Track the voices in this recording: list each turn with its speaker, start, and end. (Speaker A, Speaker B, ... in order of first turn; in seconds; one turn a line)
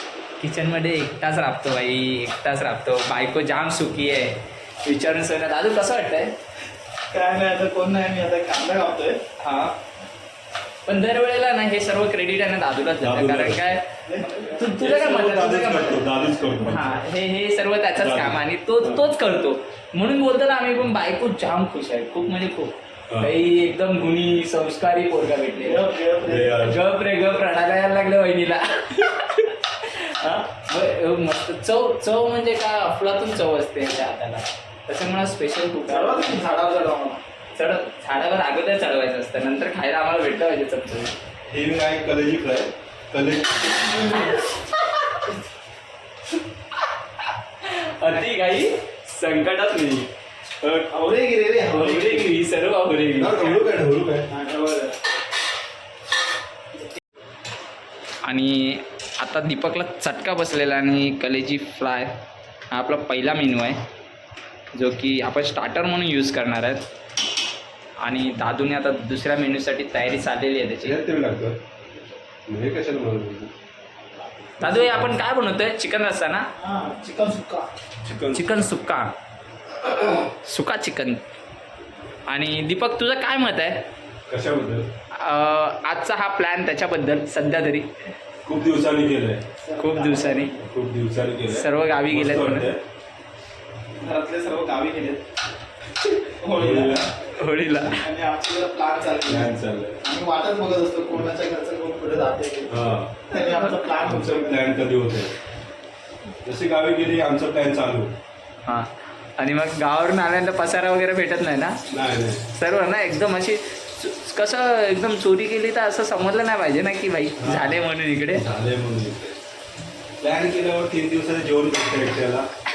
Speaker A: 0.4-6.3
Speaker B: 7.1-9.2
Speaker A: 9.4-9.7
Speaker A: 10.8-16.1
Speaker C: 13.0-13.6
Speaker B: 14.1-14.7
Speaker C: 14.7-17.0
Speaker A: 16.7-25.8
Speaker C: 18.0-19.1
Speaker B: 25.6-26.6
Speaker C: 26.2-26.8
Speaker A: 26.6-36.4
Speaker B: 35.9-37.2
Speaker A: 37.5-41.1
Speaker C: 41.5-43.9
Speaker A: 43.9-44.3
Speaker A: 47.6-50.1
Speaker A: 50.6-50.9
Speaker B: 50.9-52.4
Speaker A: 51.7-53.6
Speaker C: 53.2-54.3
Speaker B: 54.3-54.9
Speaker A: 58.2-62.1
Speaker A: 62.7-63.8
Speaker A: 64.8-66.8
Speaker A: 68.0-71.0
Speaker C: 70.8-71.6
Speaker C: 72.5-73.5
Speaker A: 74.6-76.5
Speaker C: 74.6-74.9
Speaker B: 76.6-77.7
Speaker C: 78.0-78.6
Speaker A: 78.3-79.1
Speaker A: 80.2-81.2
Speaker A: 82.3-83.8
Speaker C: 84.3-84.9
Speaker A: 85.1-87.9
Speaker C: 88.4-89.4
Speaker B: 89.6-90.7
Speaker A: 89.8-90.5
Speaker C: 90.7-92.8
Speaker A: 91.5-92.7
Speaker B: 94.0-95.2
Speaker B: 96.4-97.1
Speaker C: 96.5-97.1
Speaker A: 97.3-98.0
Speaker B: 97.8-104.7
Speaker C: 99.2-100.0
Speaker C: 102.7-103.2
Speaker C: 104.0-105.3
Speaker C: 106.4-108.1
Speaker A: 108.7-111.8
Speaker C: 111.9-112.4
Speaker A: 112.5-118.4
Speaker C: 117.4-119.3
Speaker C: 120.2-122.5